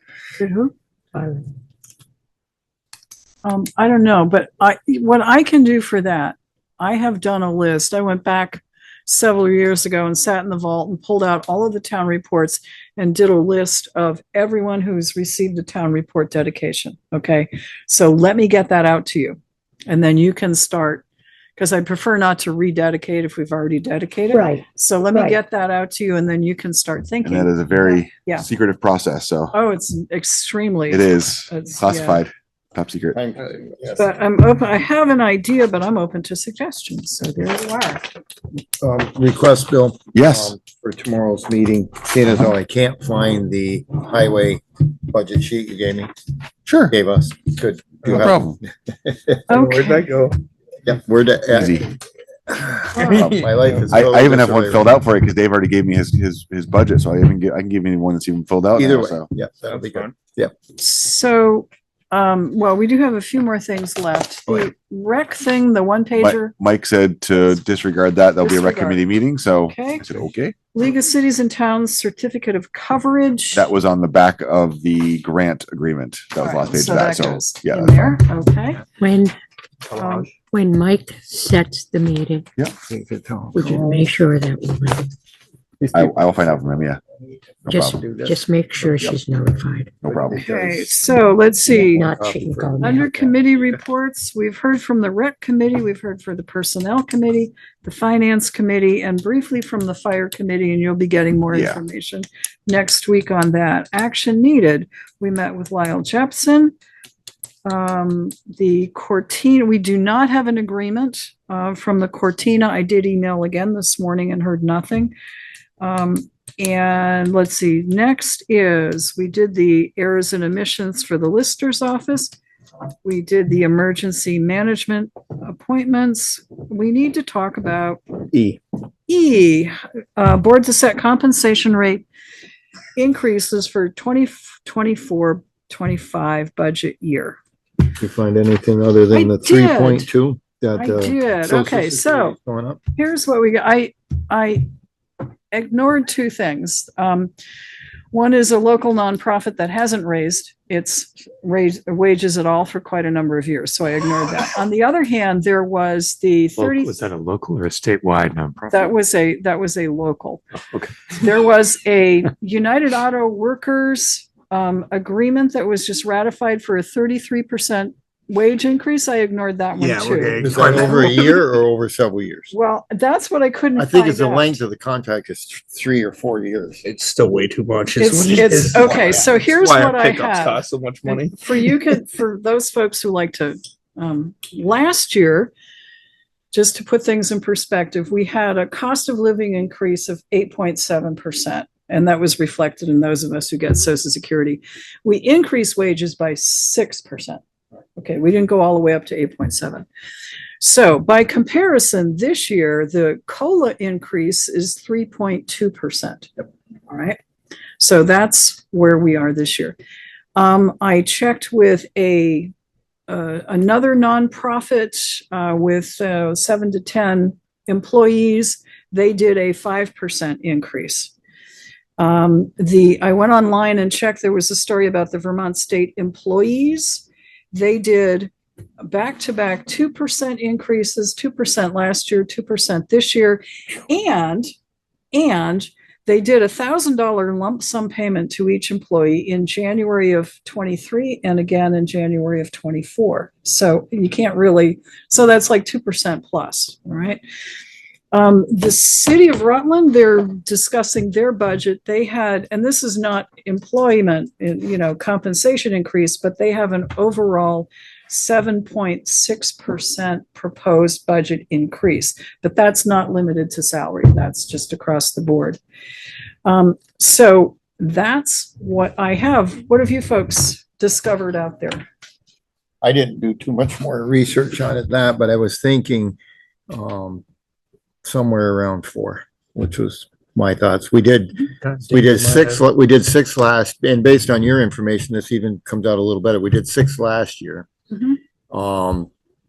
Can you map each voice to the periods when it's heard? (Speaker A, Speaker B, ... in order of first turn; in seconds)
Speaker A: 0.4-0.7, 3.4-21.1, 21.6-28.4, 29.5-32.2, 34.0-38.0, 49.5-50.1, 53.0-53.3, 60.8-66.5, 68.4-69.0, 69.7-70.1, 70.7-73.7, 76.4-78.8, 80.0-80.3, 90.3-92.1, 92.8-106.7, 107.6-115.1, 115.8-122.3, 123.0-128.0, 129.1-132.1, 132.9-137.4, 139.1-140.1, 140.7-142.3, 143.0-144.7, 145.5-147.3, 148.1-157.0, 158.7-160.4, 161.1-171.4, 172.5-174.6, 178.0-185.5, 186.5-197.4, 197.9-199.8, 200.6-207.2, 207.8-209.8, 210.3-212.5, 213.1-221.1, 222.0-234.5, 235.1-247.2, 248.1-265.6, 266.4-271.8
Speaker B: 1.1-1.4, 24.3-25.4, 79.0-79.3, 80.3-82.5, 83.5-85.1, 87.7-90.0, 91.7-93.3
Speaker C: 27.2-29.5, 30.9-33.2, 40.1-40.5, 46.7-46.9, 48.1-48.6, 51.5-51.9, 53.0-59.3, 66.2-70.5, 73.5-78.1, 85.9-87.0, 87.7-88.1, 90.0-90.4, 101.5-101.8
Speaker D: 33.1-34.1, 38.8-46.1, 46.9-49.4, 50.8-51.9, 52.5-55.0, 58.7-60.5, 80.0-80.2, 82.8-84.0, 85.8-86.1, 88.0-88.4, 90.3-90.7, 92.2-92.7, 128.3-128.6, 137.9-142.8, 170.4-172.5, 173.7-176.8, 178.8-179.2, 272.8-276.2, 276.7-277.2, 278.0-287.7, 288.5-289.1
Speaker E: 49.5-50.4, 59.7-60.0, 169.8-171.0, 176.8-181.3
Speaker F: 156.6-158.9, 160.7-161.0